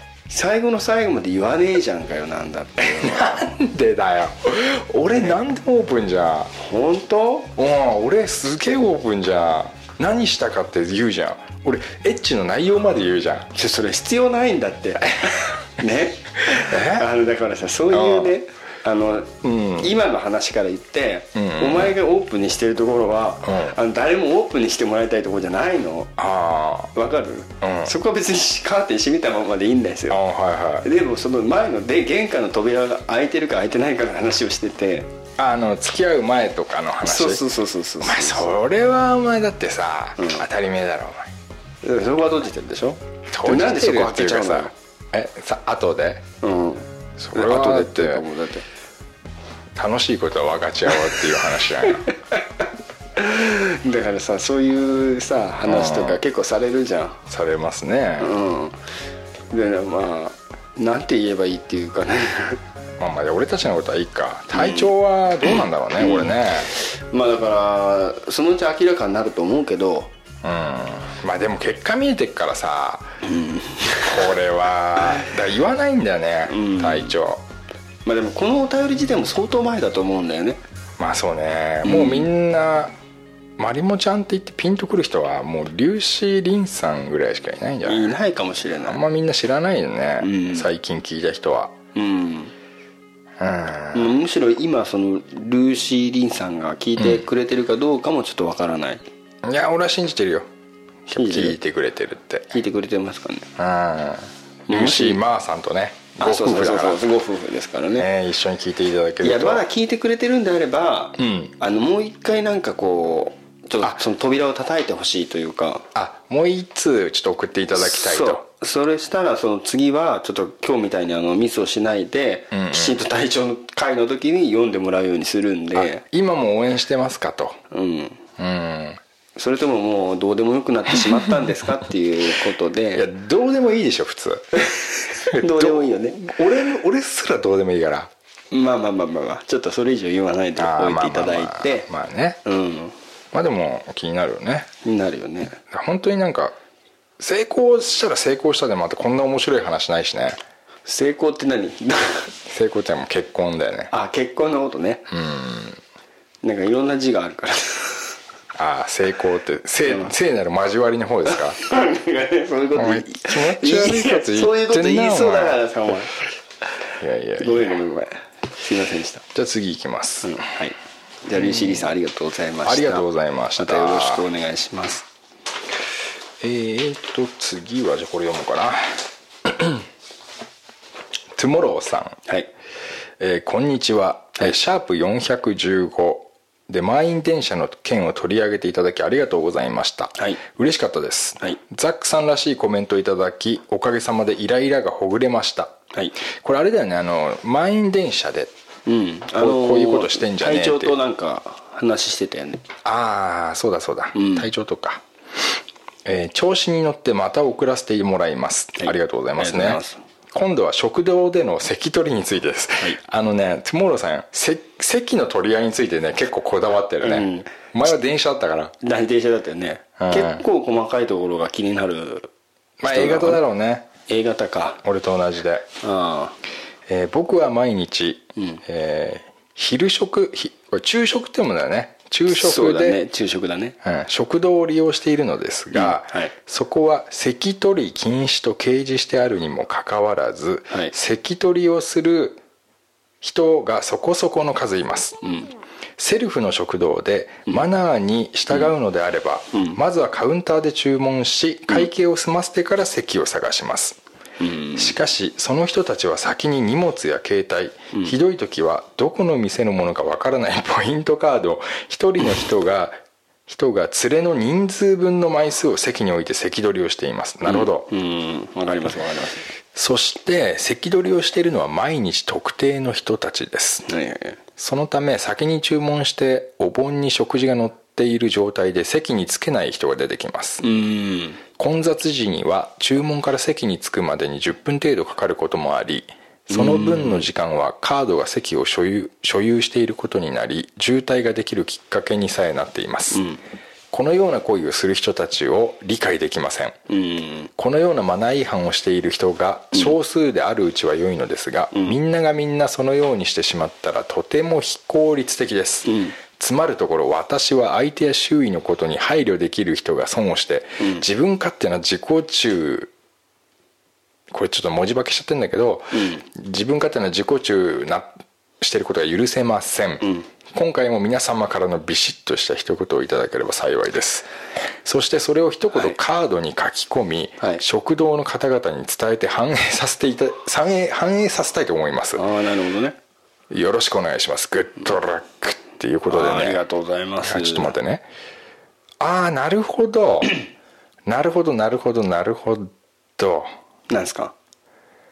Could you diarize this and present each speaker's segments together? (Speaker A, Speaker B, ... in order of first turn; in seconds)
Speaker A: 0.3-3.5, 6.5-7.5, 13.5-26.1, 26.9-30.2, 30.8-35.1, 37.0-38.6, 41.8-44.7, 46.4-48.6, 53.1-57.2, 58.2-58.8, 59.5-62.6, 64.5-64.9, 66.0-70.1, 73.2-74.3, 76.5-77.2, 78.0-80.6, 81.8-82.3, 87.8-89.0, 90.2-90.7, 91.9-92.5, 93.9-99.0, 101.1-101.6, 102.5-103.5, 104.7-105.2, 106.2-108.1, 109.2-115.9, 117.7-126.0, 127.7-128.2, 129.3-133.1, 134.6-136.2, 138.5-141.9, 142.4-142.9, 144.8-145.6, 150.8-152.3, 153.9-155.1, 156.4-158.1, 159.9-160.1, 161.3-166.2, 167.4-169.2, 170.2-173.1, 173.6-175.0, 198.8-202.6, 204.1-204.4, 208.8-210.0, 217.0-217.5, 218.8-222.3, 222.8-223.4, 224.1-224.8, 225.8-226.3, 232.3-233.8, 235.7-236.3, 245.2-245.5, 249.5-249.8, 254.4-254.9, 267.4-269.5, 273.9-274.4, 280.6-281.4, 286.5-287.2, 293.1-293.4, 296.9-297.5, 305.8-306.1, 310.8-311.0, 315.9-316.2, 332.1-333.0, 336.1-337.7, 343.9-344.3
Speaker B: 2.8-6.5, 7.5-13.5, 16.5-17.1, 17.9-18.3, 19.4-19.9, 21.3-21.9, 23.4-23.7, 26.2-26.9, 27.6-27.9, 30.1-30.9, 35.4-37.4, 38.0-41.3, 43.3-46.2, 47.2-48.2, 49.7-52.0, 55.6-56.2, 57.3-58.3, 63.0-66.7, 70.4-73.1, 74.0-77.4, 81.0-82.9, 83.6-88.2, 88.8-91.7, 93.4-94.1, 97.0-97.2, 99.4-100.5, 101.0-102.6, 103.5-107.1, 108.0-109.6, 111.2-111.5, 115.9-118.4, 122.5-123.0, 125.7-127.6, 128.4-129.0, 132.9-134.4, 135.2-138.1, 140.6-142.4, 143.3-144.7, 145.7-146.5, 147.2-150.4, 152.5-153.9, 155.1-155.8, 158.5-161.6, 162.7-165.6, 167.0-167.7, 169.3-170.4, 171.4-171.9, 172.6-174.2, 176.4-179.8, 181.3-182.2, 183.2-195.7, 196.3-198.5, 199.4-200.9, 202.8-205.0, 206.0-209.8, 210.3-218.7, 220.0-220.4, 222.8-223.9, 224.8-225.7, 226.9-233.0, 233.8-242.4, 243.2-245.2, 246.0-254.0, 254.8-262.9, 263.5-267.9, 269.7-273.9, 274.6-280.6, 281.6-293.2, 293.9-296.8, 297.6-312.9, 314.3-324.3, 324.8-332.2, 333.5-336.6, 337.2-338.1, 339.0-340.4, 341.1-343.5